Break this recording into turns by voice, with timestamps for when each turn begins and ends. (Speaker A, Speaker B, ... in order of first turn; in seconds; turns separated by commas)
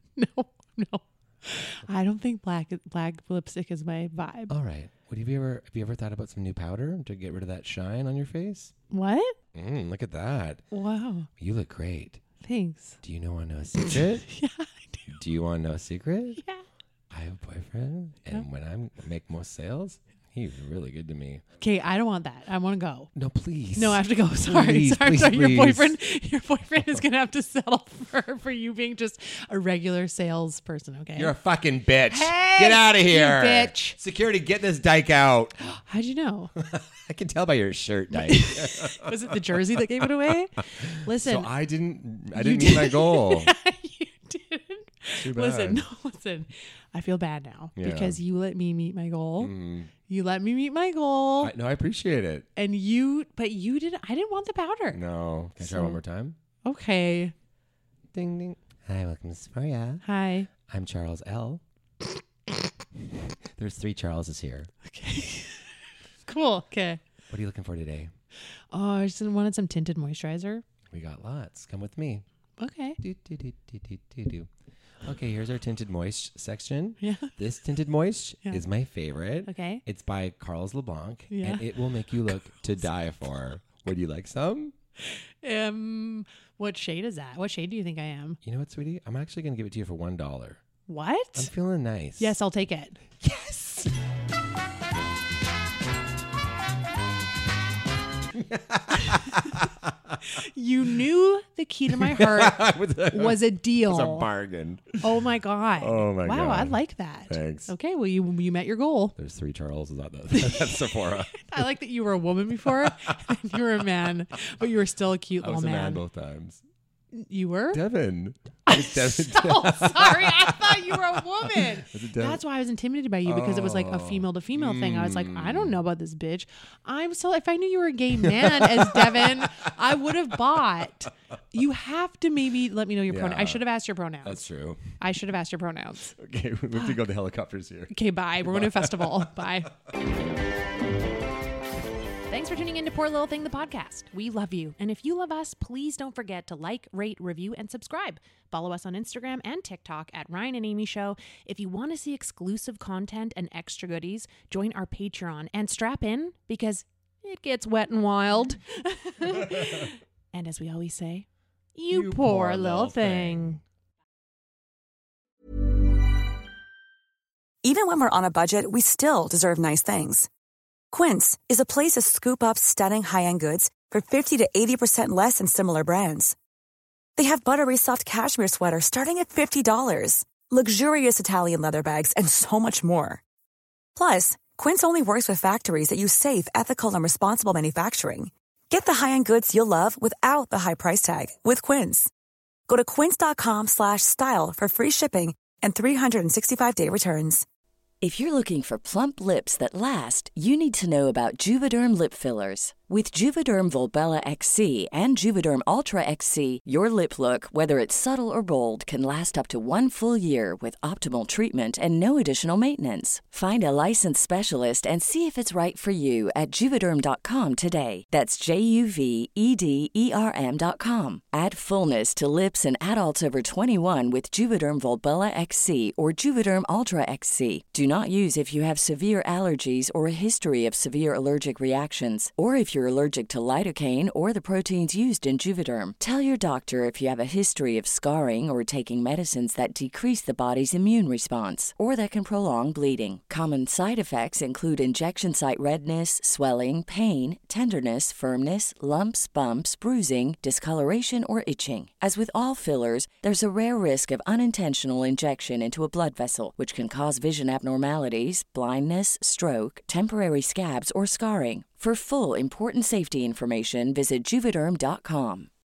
Speaker A: 0.2-4.5, Speaker B: 4.5-8.7, Speaker A: 8.9-9.3, Speaker B: 9.6-10.6, Speaker A: 10.7-11.3, Speaker B: 11.4-12.2, Speaker A: 12.4-13.0, Speaker B: 13.0-14.3, Speaker A: 13.9-15.1, Speaker B: 15.1-16.4, Speaker A: 16.4-16.6, Speaker B: 17.1-21.4, Speaker A: 21.6-23.1, Speaker B: 23.2-25.9, Speaker A: 23.8-31.3, Speaker B: 31.2-35.6, Speaker A: 32.1-34.0, Speaker A: 35.8-36.5, Speaker B: 36.6-39.2, Speaker A: 38.1-41.5, Speaker B: 40.9-43.5, Speaker A: 42.4-49.5, Speaker B: 45.1-45.8, Speaker B: 47.8-48.2, Speaker B: 49.4-49.9, Speaker A: 50.1-51.5, Speaker B: 51.4-52.5, Speaker A: 52.6-55.0, Speaker B: 54.9-56.4, Speaker A: 55.6-56.0, Speaker A: 56.7-57.3, Speaker B: 58.1-60.0, Speaker A: 60.0-60.5, Speaker B: 60.7-61.6, Speaker B: 63.6-64.7, Speaker A: 64.9-65.7, Speaker A: 66.3-67.0, Speaker B: 67.3-68.1, Speaker A: 68.7-70.6, Speaker B: 70.9-72.2, Speaker A: 72.6-73.0, Speaker B: 73.0-74.5, Speaker B: 75.0-84.7, Speaker A: 77.0-77.3, Speaker A: 79.5-79.8, Speaker A: 81.3-81.7, Speaker A: 85.0-88.4, Speaker B: 88.4-90.6, Speaker A: 90.9-91.5, Speaker B: 91.4-92.4, Speaker A: 92.2-93.0, Speaker B: 93.2-93.9, Speaker B: 98.4-100.2, Speaker A: 100.4-104.3, Speaker B: 102.0-105.0, Speaker A: 105.0-109.2, Speaker B: 105.8-107.7, Speaker B: 109.2-111.5, Speaker A: 110.5-110.8, Speaker A: 111.4-116.0, Speaker B: 112.9-113.2, Speaker B: 115.4-116.6, Speaker A: 117.1-117.8, Speaker B: 117.7-122.4, Speaker A: 118.7-134.4, Speaker B: 123.2-125.8, Speaker B: 128.2-129.7, Speaker B: 133.1-133.6, Speaker B: 134.2-135.0, Speaker A: 135.0-136.2, Speaker B: 136.2-137.9, Speaker A: 137.9-139.7, Speaker B: 138.4-139.3, Speaker A: 142.3-163.6, Speaker B: 161.9-163.6, Speaker C: 167.6-170.3, Speaker C: 170.9-176.4, Speaker C: 177.2-183.2, Speaker C: 184.0-192.1, Speaker C: 192.7-197.4, Speaker D: 198.0-265.5